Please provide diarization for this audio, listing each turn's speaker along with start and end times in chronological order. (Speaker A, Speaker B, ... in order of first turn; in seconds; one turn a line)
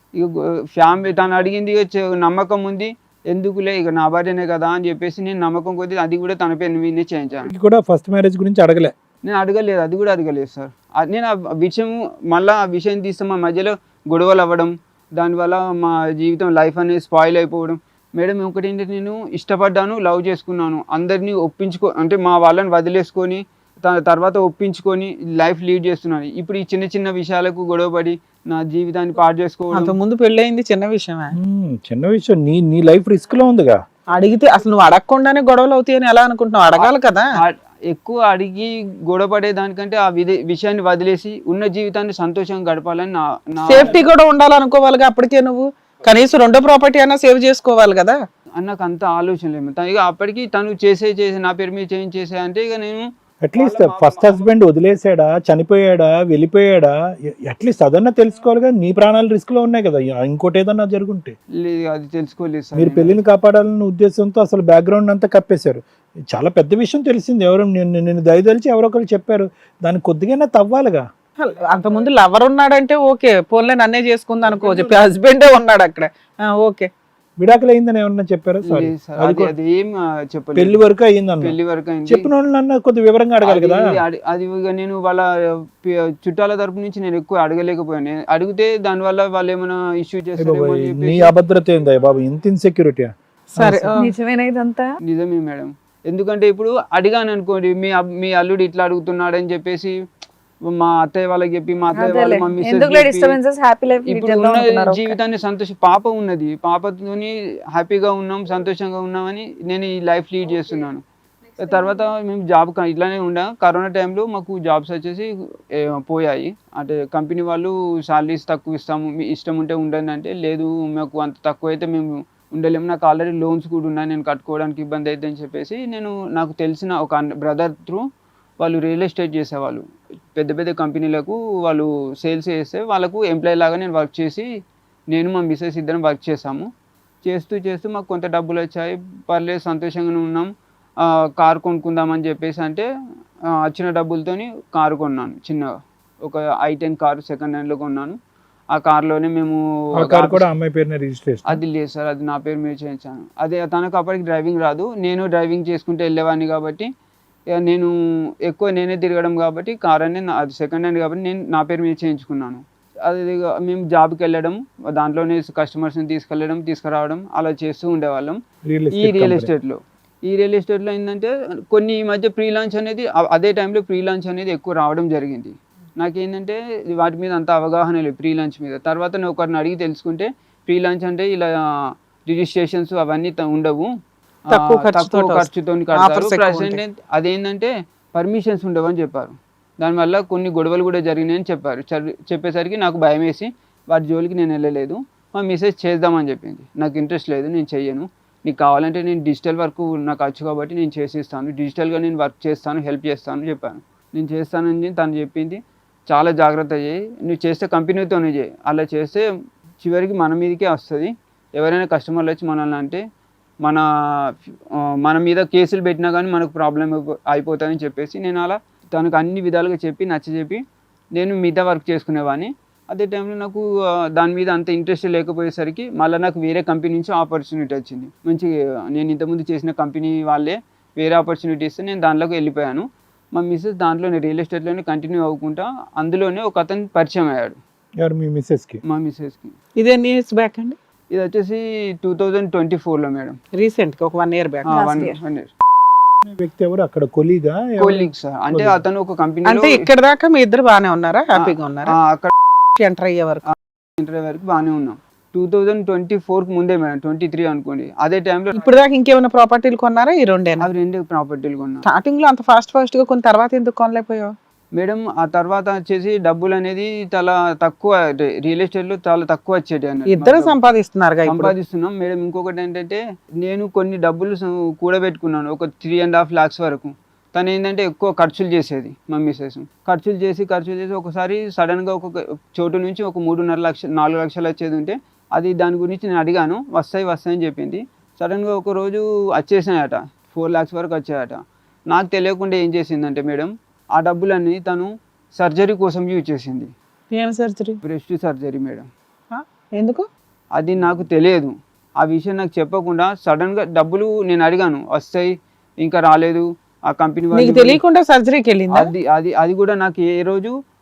Speaker A: 0.1-7.5
Speaker B: 7.5-8.9
Speaker A: 9.2-29.9
Speaker C: 29.7-31.4
Speaker B: 31.3-33.8
Speaker C: 34.1-37.2
Speaker A: 36.8-44.0
Speaker C: 43.7-48.2
Speaker A: 48.6-54.5
Speaker B: 53.4-61.3
Speaker A: 61.6-63.2
Speaker B: 62.8-71.0
Speaker C: 71.4-76.9
Speaker B: 74.5-74.9
Speaker B: 77.4-79.5
Speaker A: 78.6-80.8
Speaker B: 80.6-81.6
Speaker A: 81.4-82.3
Speaker B: 82.1-84.0
Speaker A: 83.4-91.3
Speaker B: 90.4-93.9
Speaker C: 93.5-94.1
Speaker D: 94.0-95.0
Speaker A: 95.0-99.9
Speaker A: 100.7-103.4
Speaker D: 102.0-105.2
Speaker A: 104.0-111.0
Speaker A: 111.6-128.1
Speaker A: 128.6-134.5
Speaker A: 135.1-136.7
Speaker A: 137.2-140.5
Speaker A: 141.4-142.9
Speaker A: 143.6-145.7
Speaker A: 146.2-148.2
Speaker A: 148.7-150.4
Speaker B: 150.0-151.6
Speaker A: 151.5-156.9
Speaker A: 157.5-157.9
Speaker A: 158.4-168.4
Speaker B: 168.7-169.5
Speaker A: 168.9-183.9
Speaker C: 184.5-186.8
Speaker A: 184.5-209.2
Speaker A: 209.8-213.0
Speaker A: 213.6-220.6
Speaker A: 221.2-237.6
Speaker B: 238.0-238.8
Speaker A: 238.8-239.6
Speaker C: 239.8-240.8
Speaker A: 241.1-243.4
Speaker C: 243.5-245.1
Speaker A: 244.7-245.5
Speaker D: 244.7-245.1
Speaker B: 246.2-248.8
Speaker A: 247.8-249.8
Speaker C: 249.4-251.9
Speaker A: 251.4-252.3
Speaker C: 252.8-253.4
Speaker A: 253.5-258.7
Speaker C: 258.5-260.7
Speaker A: 260.6-261.9
Speaker C: 261.8-264.3
Speaker A: 264.7-270.5
Speaker C: 270.1-271.5
Speaker A: 271.2-296.7
Speaker C: 297.1-297.8
Speaker A: 297.8-298.9
Speaker C: 299.3-300.1
Speaker A: 300.6-307.8
Speaker C: 307.3-308.9
Speaker A: 308.7-310.5